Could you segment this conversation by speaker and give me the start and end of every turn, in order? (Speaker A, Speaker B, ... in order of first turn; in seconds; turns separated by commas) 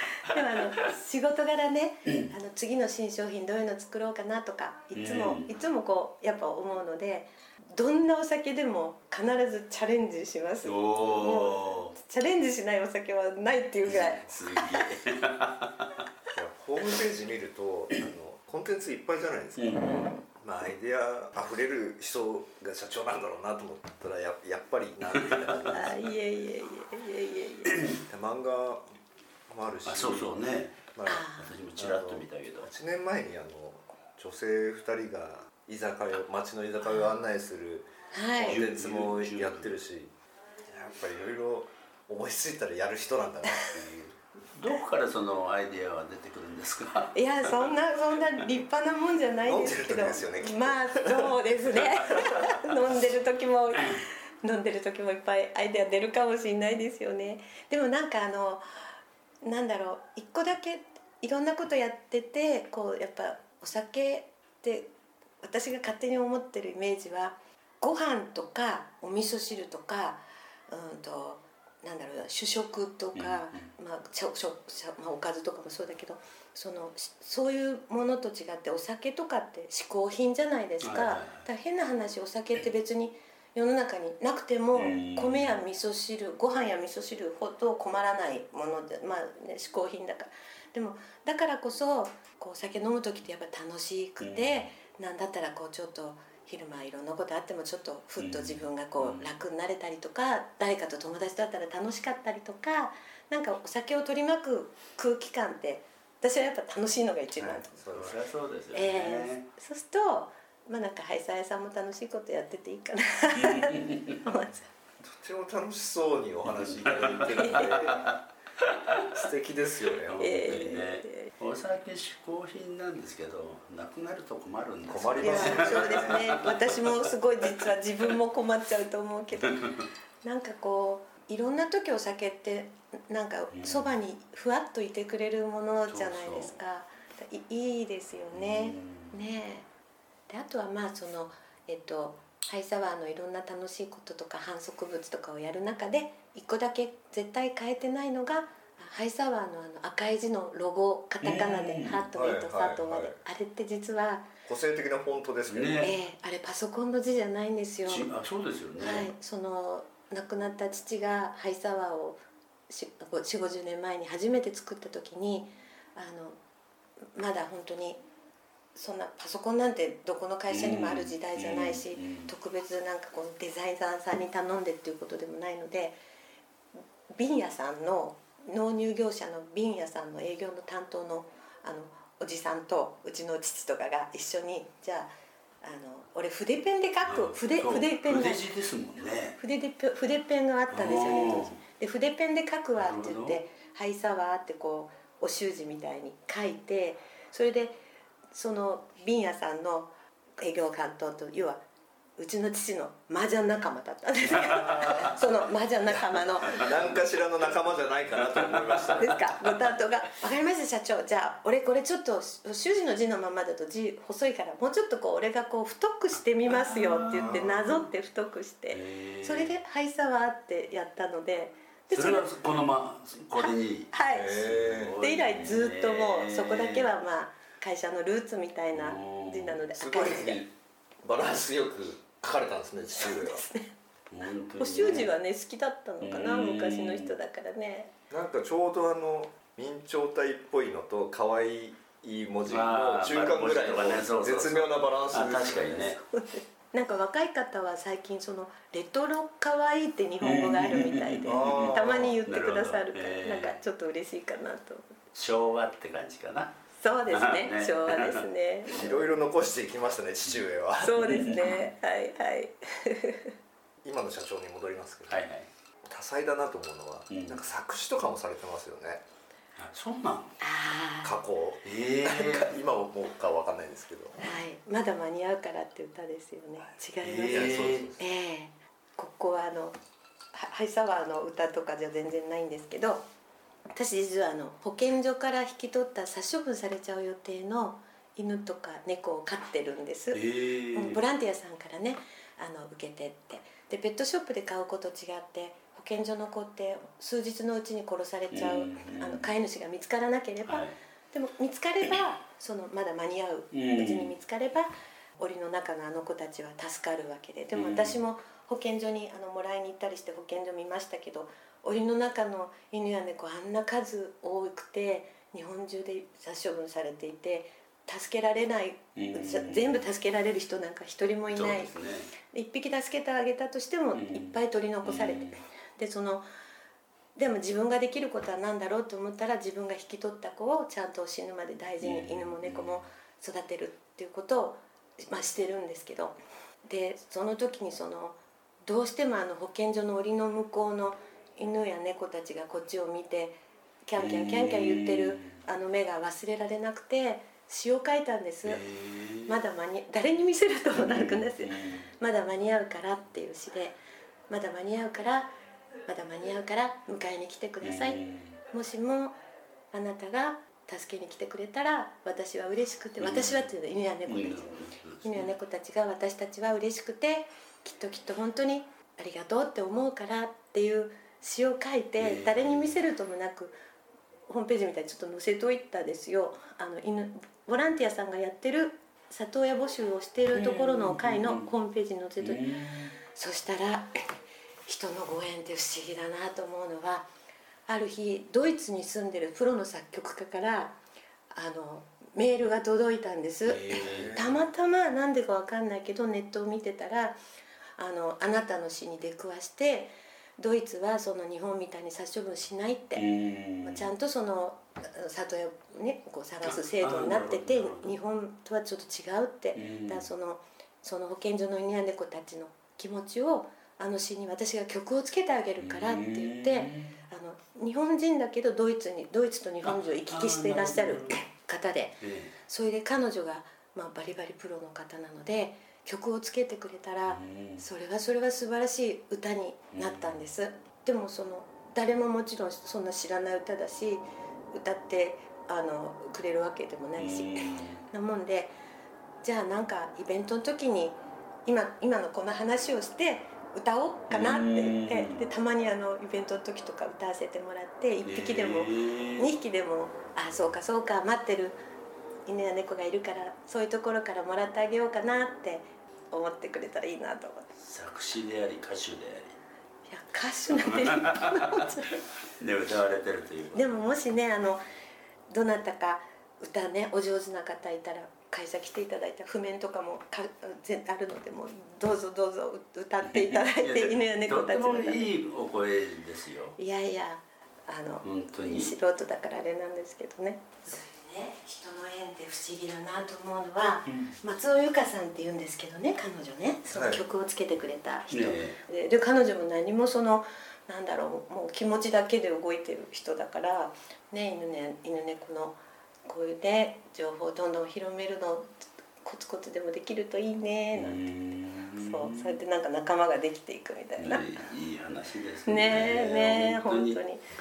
Speaker A: 0.2-14.8, Speaker B: 4.9-5.5, Speaker B: 10.6-11.9, Speaker B: 13.9-15.8, Speaker C: 16.3-19.8, Speaker B: 19.6-20.1, Speaker C: 20.4-25.9, Speaker B: 25.2-25.7, Speaker A: 25.7-27.8, Speaker B: 27.7-28.0, Speaker C: 28.1-29.0, Speaker C: 29.5-30.3, Speaker B: 29.9-32.7, Speaker C: 30.9-40.1, Speaker A: 31.1-31.5, Speaker A: 38.1-38.6, Speaker B: 38.4-39.7, Speaker C: 40.7-44.1, Speaker B: 44.5-47.7, Speaker A: 47.1-58.6, Speaker C: 49.4-51.3, Speaker A: 59.4-64.9, Speaker A: 65.4-107.8, Speaker B: 73.1-73.6, Speaker B: 80.8-81.5, Speaker B: 84.7-85.5, Speaker B: 94.2-94.6, Speaker B: 98.2-99.3, Speaker C: 107.4-108.2, Speaker B: 107.9-109.5, Speaker A: 108.7-114.7, Speaker B: 113.4-114.2, Speaker C: 115.0-118.1, Speaker B: 116.5-119.2, Speaker C: 119.1-120.2, Speaker B: 119.9-126.6, Speaker A: 120.2-121.3, Speaker C: 124.8-126.5, Speaker A: 125.2-129.6, Speaker A: 130.2-139.7, Speaker B: 133.5-133.9, Speaker B: 135.9-136.6, Speaker B: 138.3-139.1, Speaker A: 140.3-154.3, Speaker B: 151.2-152.0, Speaker C: 152.1-153.2, Speaker C: 154.4-155.9, Speaker B: 155.5-155.9, Speaker A: 155.8-158.1, Speaker B: 157.8-159.1, Speaker A: 158.8-166.4, Speaker A: 167.1-168.0, Speaker A: 168.7-176.0, Speaker B: 170.5-172.3, Speaker A: 177.1-185.1, Speaker A: 185.6-188.4, Speaker B: 187.1-189.4, Speaker A: 189.4-197.8, Speaker B: 190.7-191.6, Speaker B: 192.8-193.4, Speaker A: 198.3-201.6, Speaker A: 202.2-206.7, Speaker B: 204.3-205.2, Speaker C: 206.4-209.2, Speaker B: 206.4-206.9, Speaker B: 208.2-209.1, Speaker A: 209.0-222.3, Speaker B: 216.4-217.6, Speaker B: 218.7-219.5, Speaker B: 221.9-226.9, Speaker A: 223.3-230.4, Speaker C: 224.1-225.0, Speaker B: 228.7-229.6, Speaker C: 229.8-230.5, Speaker C: 231.0-233.5, Speaker A: 232.9-233.7, Speaker B: 234.1-235.1, Speaker A: 234.6-237.9, Speaker B: 236.0-237.1, Speaker C: 238.1-246.0, Speaker B: 242.5-246.0, Speaker A: 246.1-254.9, Speaker B: 250.2-253.6, Speaker C: 251.2-252.2, Speaker B: 255.1-256.5, Speaker A: 256.8-258.9, Speaker B: 257.1-258.9, Speaker C: 258.7-261.4, Speaker A: 260.8-263.3, Speaker B: 261.0-261.6, Speaker C: 263.8-265.3, Speaker B: 265.1-265.5, Speaker C: 265.8-269.0, Speaker B: 267.1-267.4, Speaker B: 269.6-270.3, Speaker A: 270.4-271.1, Speaker C: 271.0-274.2, Speaker B: 271.6-272.5, Speaker A: 274.2-279.8, Speaker B: 277.0-277.8, Speaker C: 277.3-278.0, Speaker A: 280.3-283.0, Speaker A: 283.7-290.2, Speaker B: 290.1-291.0, Speaker A: 290.7-321.7, Speaker B: 298.3-299.2, Speaker B: 300.5-300.7, Speaker B: 303.5-304.1, Speaker B: 307.5-308.0, Speaker B: 318.9-319.8, Speaker B: 321.3-322.1, Speaker A: 322.2-326.2, Speaker B: 323.9-325.4, Speaker A: 327.1-348.6, Speaker B: 331.8-332.8, Speaker B: 344.0-345.4, Speaker B: 348.4-349.3, Speaker A: 349.2-353.8, Speaker B: 350.8-351.9, Speaker A: 354.3-355.3, Speaker A: 355.9-359.1, Speaker B: 357.6-358.4, Speaker A: 359.7-373.6, Speaker B: 363.0-363.5, Speaker B: 364.1-365.3, Speaker B: 372.0-372.8, Speaker A: 374.3-382.5, Speaker B: 380.3-381.5, Speaker B: 382.2-382.9, Speaker A: 383.0-383.9, Speaker A: 384.7-387.1, Speaker A: 387.7-390.8, Speaker A: 391.3-397.2, Speaker B: 393.4-394.3, Speaker C: 393.9-394.2, Speaker A: 397.8-403.0, Speaker B: 402.9-403.8, Speaker A: 403.6-438.5, Speaker B: 406.4-407.9, Speaker B: 409.5-410.0, Speaker B: 415.6-416.9, Speaker B: 419.6-421.2, Speaker B: 422.0-422.3, Speaker B: 427.1-427.6, Speaker B: 429.7-430.1, Speaker B: 437.0-437.8, Speaker A: 439.2-451.6, Speaker B: 444.1-445.2, Speaker B: 448.0-449.3, Speaker A: 452.2-457.5, Speaker B: 457.6-459.4, Speaker A: 459.9-462.0, Speaker B: 460.5-461.6, Speaker B: 462.4-463.8, Speaker A: 463.5-464.6, Speaker A: 465.3-475.1, Speaker B: 473.1-476.6, Speaker A: 476.6-498.5, Speaker B: 478.0-478.7, Speaker B: 483.9-484.1, Speaker C: 486.7-487.0, Speaker B: 488.1-488.6, Speaker A: 499.0-501.1, Speaker B: 500.7-502.4, Speaker A: 501.7-504.3, Speaker B: 504.0-507.0, Speaker A: 505.5-507.3